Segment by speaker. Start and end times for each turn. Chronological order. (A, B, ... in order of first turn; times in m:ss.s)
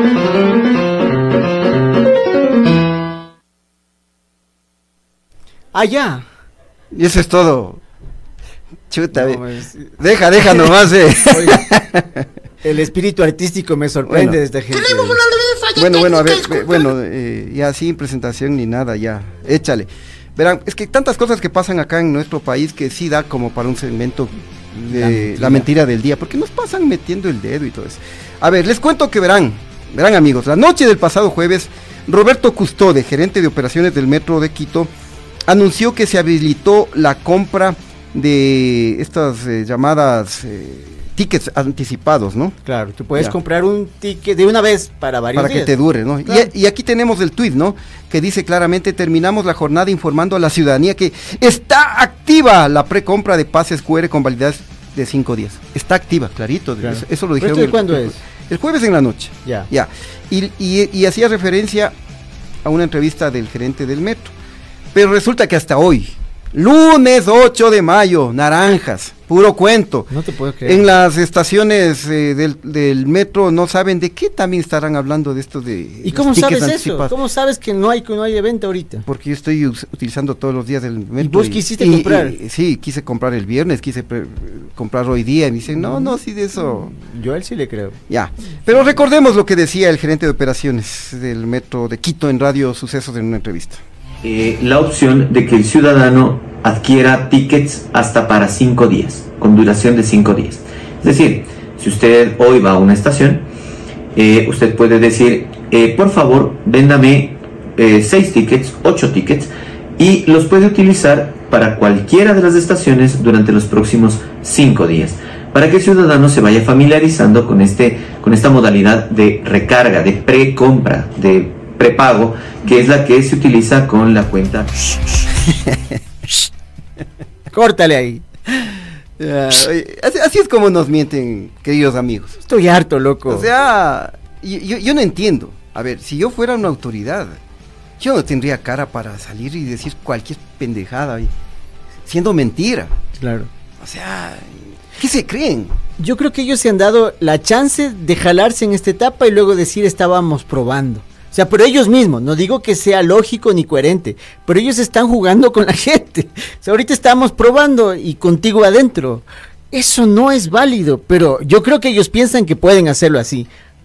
0:05.7-0:06.3 A
0:06.9-0:07.8 B
0:08.9-0:09.4 B
0:09.1-0:09.9 A
0:10.0-0:12.3 B
0:11.3-0:11.6 A
0:12.6-0:15.3 A
0:14.1-0:14.4 B
0:15.7-0:34.9 B
0:24.9-0:25.7 A
0:35.5-0:42.6 B
0:42.7-0:45.7 A
0:45.4-1:02.0 B
0:56.8-0:58.2 A
1:02.6-1:04.3 B
1:04.9-1:10.1 B
1:10.1-1:10.9 A
1:10.6-1:17.1 B
1:16.0-1:19.1 A
1:19.1-1:26.9 B
1:21.2-1:22.4 A
1:25.8-1:26.1 A
1:26.9-1:28.0 A
1:28.1-1:33.8 B
1:34.2-1:43.4 C
1:44.2-2:04.7 C
2:07.5-2:08.2 A
2:08.6-2:12.4 B
2:12.4-2:13.5 A
2:13.3-2:17.4 B
2:18.0-2:21.3 B
2:22.0-2:22.9 B
2:23.2-2:23.5 A
2:23.8-2:25.8 B
2:26.0-2:43.5 A